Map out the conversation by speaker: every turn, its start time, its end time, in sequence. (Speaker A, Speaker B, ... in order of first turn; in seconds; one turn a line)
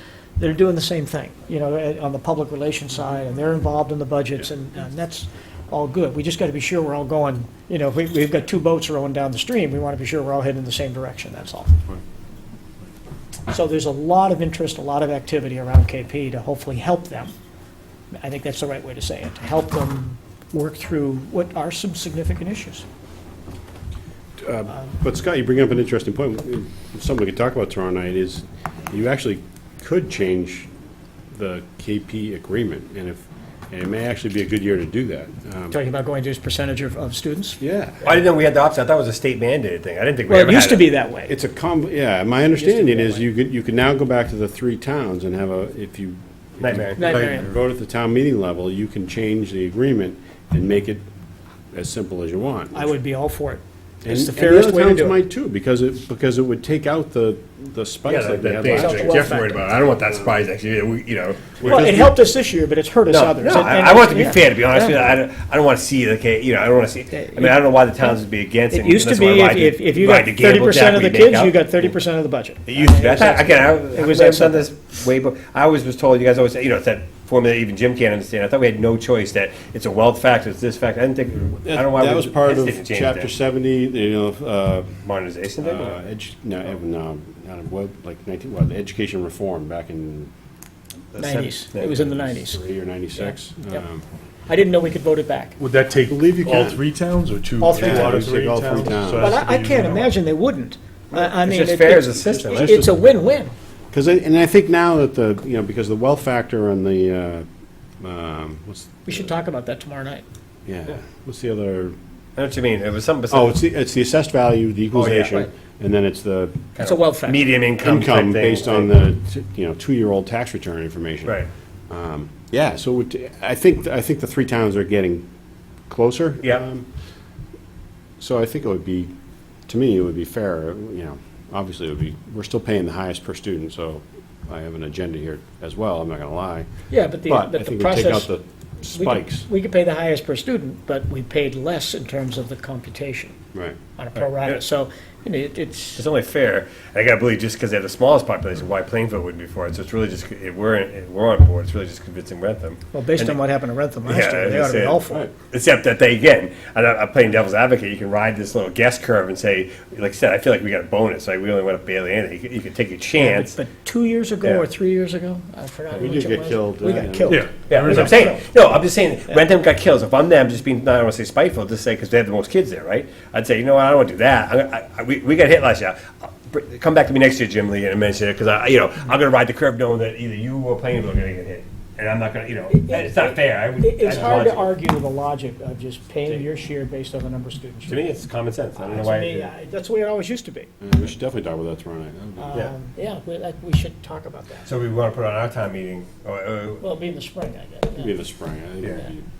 Speaker A: 0.4-11.8
Speaker A: 13.5-17.3
Speaker A: 18.1-22.8
Speaker B: 24.4-30.7
Speaker B: 31.3-35.8
Speaker A: 35.7-37.6
Speaker B: 37.6-38.2
Speaker C: 38.0-40.9
Speaker A: 40.3-41.3
Speaker B: 41.3-51.1
Speaker A: 42.6-43.3
Speaker C: 46.6-47.0
Speaker A: 47.0-47.5
Speaker D: 47.0-47.4
Speaker B: 51.7-52.9
Speaker A: 52.7-55.2
Speaker B: 54.0-59.3
Speaker C: 58.0-62.1
Speaker A: 58.7-59.6
Speaker B: 61.6-62.1
Speaker A: 61.6-65.2
Speaker C: 63.1-71.9
Speaker A: 67.1-68.2
Speaker A: 68.7-74.7
Speaker C: 72.7-83.3
Speaker B: 81.7-85.0
Speaker C: 85.0-86.0
Speaker B: 85.6-90.3
Speaker C: 91.1-92.0
Speaker A: 91.2-92.6
Speaker B: 91.8-94.0
Speaker A: 93.2-93.8
Speaker A: 94.5-95.6
Speaker D: 95.6-100.1
Speaker B: 96.1-96.8
Speaker A: 97.6-98.3
Speaker B: 97.7-99.4
Speaker A: 99.2-103.5
Speaker C: 101.1-102.8
Speaker B: 102.3-103.0
Speaker B: 103.9-107.5
Speaker B: 108.0-109.3
Speaker A: 109.1-110.2
Speaker B: 110.7-112.0
Speaker C: 112.4-113.5
Speaker B: 113.3-116.7
Speaker C: 114.9-115.5
Speaker C: 116.8-119.0
Speaker A: 116.8-117.5
Speaker B: 117.8-125.2
Speaker B: 125.9-126.9
Speaker B: 128.2-129.1
Speaker B: 129.7-136.7
Speaker A: 136.9-138.3
Speaker B: 137.2-139.5
Speaker A: 138.9-143.3
Speaker A: 144.0-146.0
Speaker C: 144.2-144.6
Speaker C: 146.0-153.4
Speaker A: 152.9-155.3
Speaker C: 154.1-163.6
Speaker A: 163.2-168.4
Speaker B: 166.0-167.4
Speaker D: 167.3-168.3
Speaker C: 167.7-184.7
Speaker A: 182.7-188.1
Speaker C: 187.8-189.5
Speaker A: 188.8-190.7
Speaker B: 190.8-192.7
Speaker A: 192.4-194.7
Speaker C: 194.7-196.8
Speaker A: 196.8-198.1
Speaker B: 197.9-199.2
Speaker C: 198.8-199.1